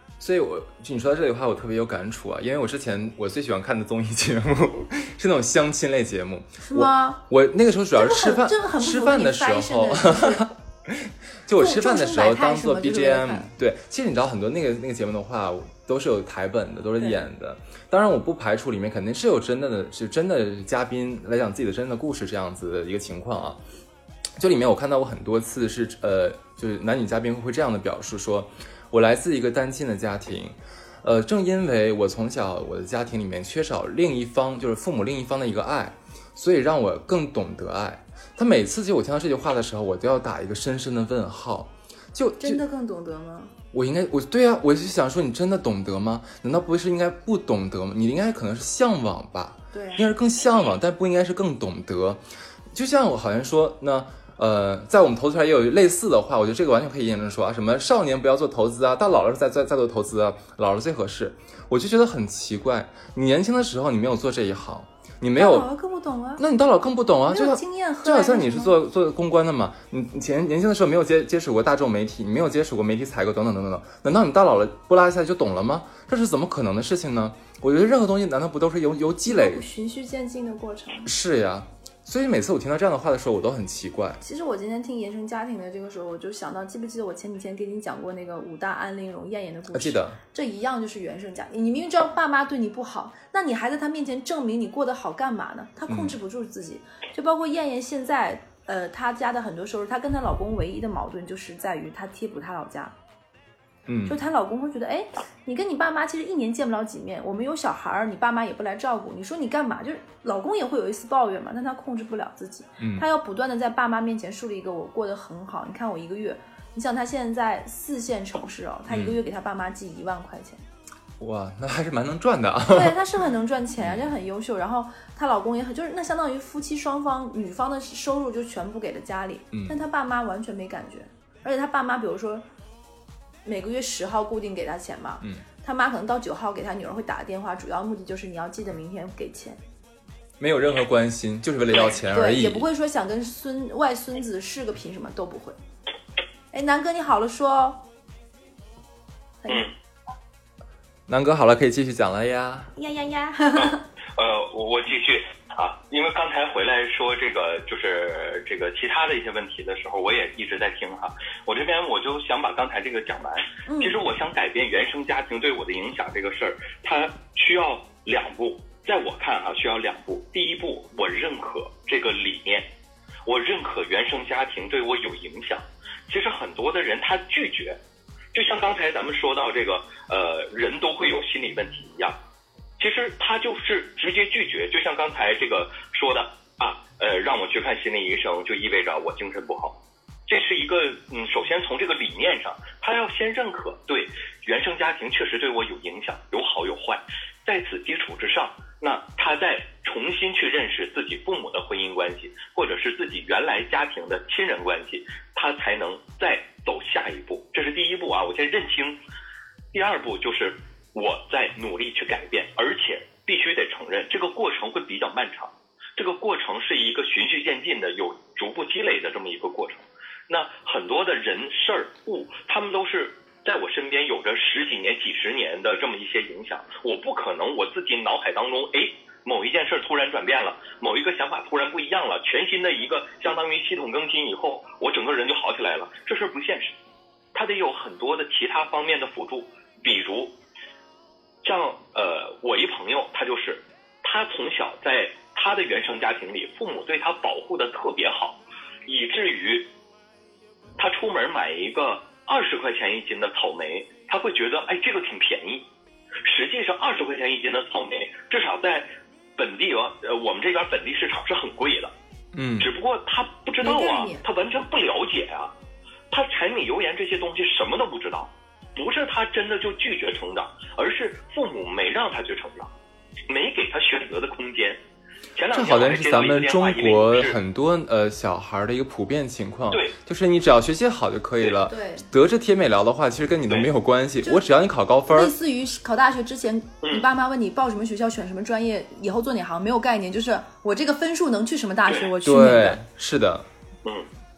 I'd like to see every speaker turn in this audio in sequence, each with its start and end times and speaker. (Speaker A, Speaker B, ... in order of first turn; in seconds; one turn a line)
Speaker A: 0.2-23.6
Speaker B: 6.7-7.2
Speaker B: 7.9-10.5
Speaker B: 11.6-13.5
Speaker B: 17.0-17.2
Speaker A: 24.4-42.6
Speaker B: 42.4-43.5
Speaker A: 43.7-52.2
Speaker B: 49.7-50.1
Speaker A: 52.7-65.7
Speaker B: 65.3-66.4
Speaker A: 66.4-79.6
Speaker B: 67.3-68.7
Speaker B: 79.3-81.1
Speaker A: 81.0-84.2
Speaker B: 84.2-102.9
Speaker A: 89.7-90.2
Speaker A: 95.9-96.2
Speaker A: 103.9-104.2
Speaker B: 104.0-120.6
Speaker A: 112.8-113.0
Speaker A: 118.9-119.2
Speaker A: 121.2-123.0
Speaker B: 122.7-132.4
Speaker A: 123.8-124.1
Speaker A: 129.5-129.8
Speaker B: 133.4-139.6
Speaker A: 140.4-142.7
Speaker B: 141.7-145.6
Speaker B: 146.5-147.8
Speaker A: 151.1-152.7
Speaker B: 152.8-153.8
Speaker C: 153.5-172.7
Speaker B: 163.7-164.0
Speaker C: 173.2-177.8
Speaker C: 178.3-182.2
Speaker C: 182.8-209.0
Speaker C: 209.7-236.7
Speaker C: 237.3-240.3
Speaker C: 241.4-249.7
Speaker C: 250.8-255.7
Speaker C: 256.2-261.9
Speaker A: 262.3-262.7
Speaker C: 262.6-265.5
Speaker B: 263.6-264.2
Speaker C: 266.1-272.7
Speaker C: 273.3-274.8
Speaker C: 275.4-277.4
Speaker A: 275.5-285.3
Speaker B: 281.6-282.1
Speaker B: 285.1-292.8
Speaker C: 286.8-287.1
Speaker C: 291.9-292.1
Speaker A: 292.2-293.4